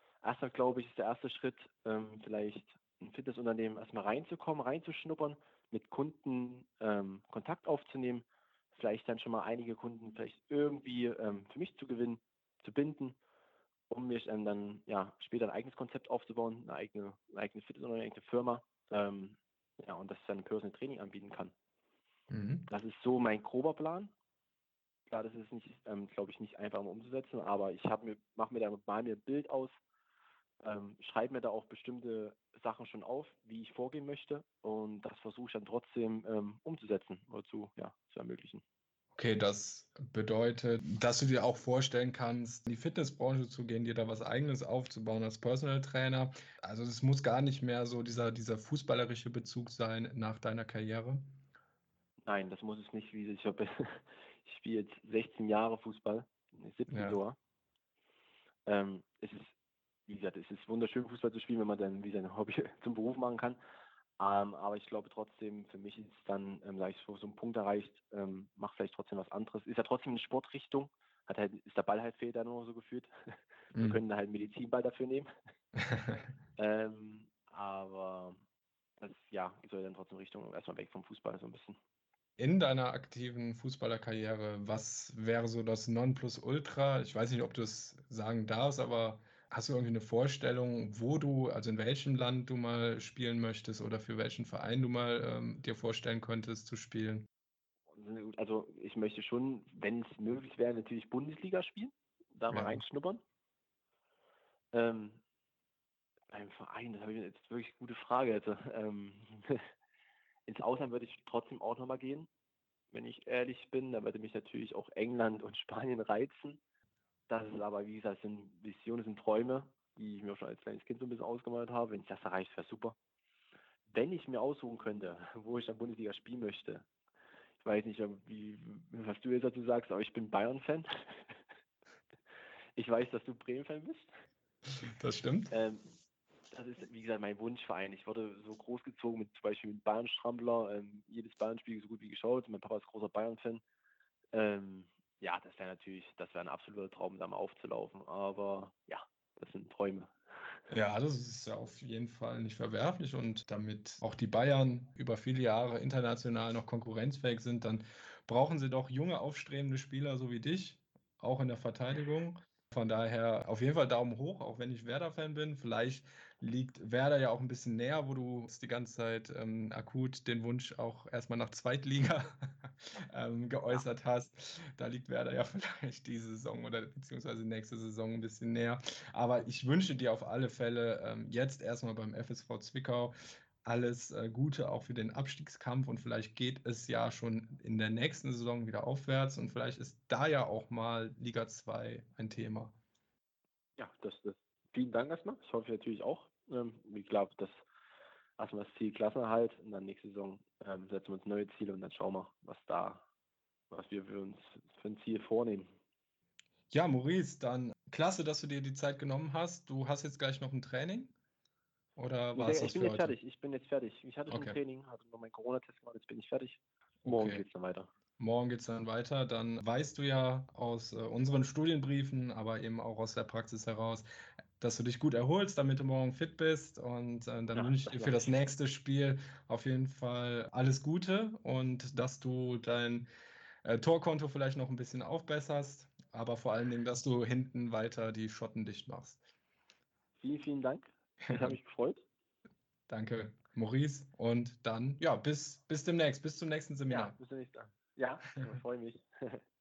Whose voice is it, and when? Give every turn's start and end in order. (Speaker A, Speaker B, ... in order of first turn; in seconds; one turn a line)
Speaker A: 0.2-13.2
Speaker A: 13.9-21.5
Speaker B: 22.3-22.6
Speaker A: 22.7-24.1
Speaker A: 25.1-29.7
Speaker A: 30.6-38.6
Speaker B: 39.1-51.2
Speaker A: 52.3-57.4
Speaker B: 56.9-57.2
Speaker A: 58.6-59.5
Speaker A: 60.1-63.6
Speaker A: 64.2-73.1
Speaker A: 73.7-75.3
Speaker B: 73.7-74.0
Speaker A: 76.5-78.4
Speaker A: 79.0-81.8
Speaker B: 82.4-97.3
Speaker A: 97.9-103.2
Speaker B: 102.5-102.8
Speaker A: 104.7-105.2
Speaker A: 106.3-109.6
Speaker A: 110.5-112.3
Speaker A: 112.9-116.6
Speaker A: 117.3-123.0
Speaker A: 123.9-126.8
Speaker A: 127.6-131.3
Speaker A: 132.8-134.1
Speaker B: 134.8-135.5
Speaker A: 135.5-135.8
Speaker A: 136.5-143.6
Speaker A: 144.3-150.1
Speaker B: 150.7-192.7
Speaker A: 193.8-197.6
Speaker A: 198.4-203.0
Speaker A: 203.7-205.7
Speaker B: 206.7-211.1
Speaker B: 211.9-213.1
Speaker A: 212.3-217.9
Speaker B: 214.3-214.6
Speaker B: 217.0-217.4
Speaker B: 218.2-224.1
Speaker B: 224.6-233.1
Speaker A: 227.5-228.3
Speaker B: 233.6-239.2
Speaker A: 240.2-242.0
Speaker B: 241.3-241.6
Speaker B: 242.9-247.1
Speaker A: 246.9-249.4